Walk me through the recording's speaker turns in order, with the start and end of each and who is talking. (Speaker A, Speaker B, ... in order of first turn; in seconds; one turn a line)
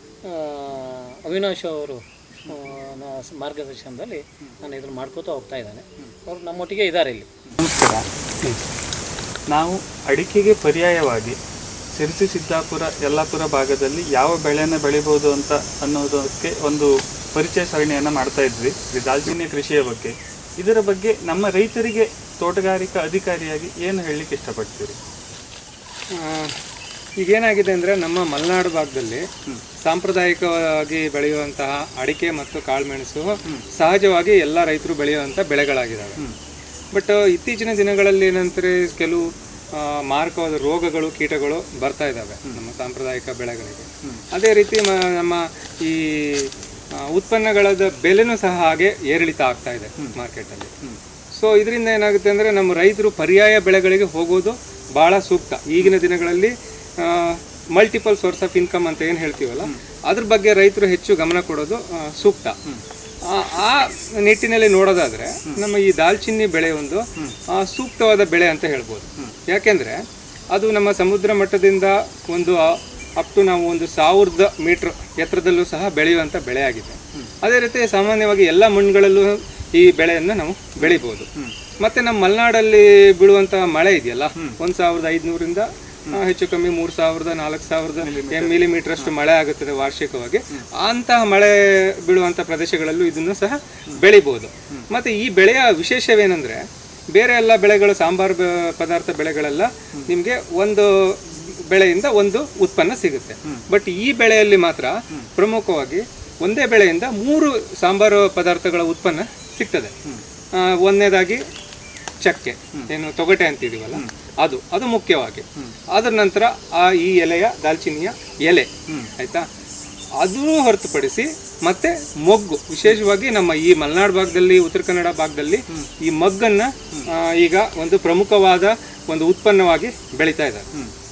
Speaker A: 0.2-7.3
Speaker B: 7.5-8.6
Speaker B: 9.5-11.4
Speaker B: 11.9-25.0
Speaker C: 26.1-26.6
Speaker C: 27.1-29.3
Speaker C: 29.8-36.2
Speaker C: 36.9-50.7
Speaker C: 51.3-62.6
Speaker C: 63.2-81.3
Speaker B: 80.8-81.5
Speaker C: 81.8-109.9
Speaker B: 88.0-89.1
Speaker C: 110.5-111.4
Speaker C: 112.2-119.4
Speaker B: 118.9-119.1
Speaker C: 120.2-130.7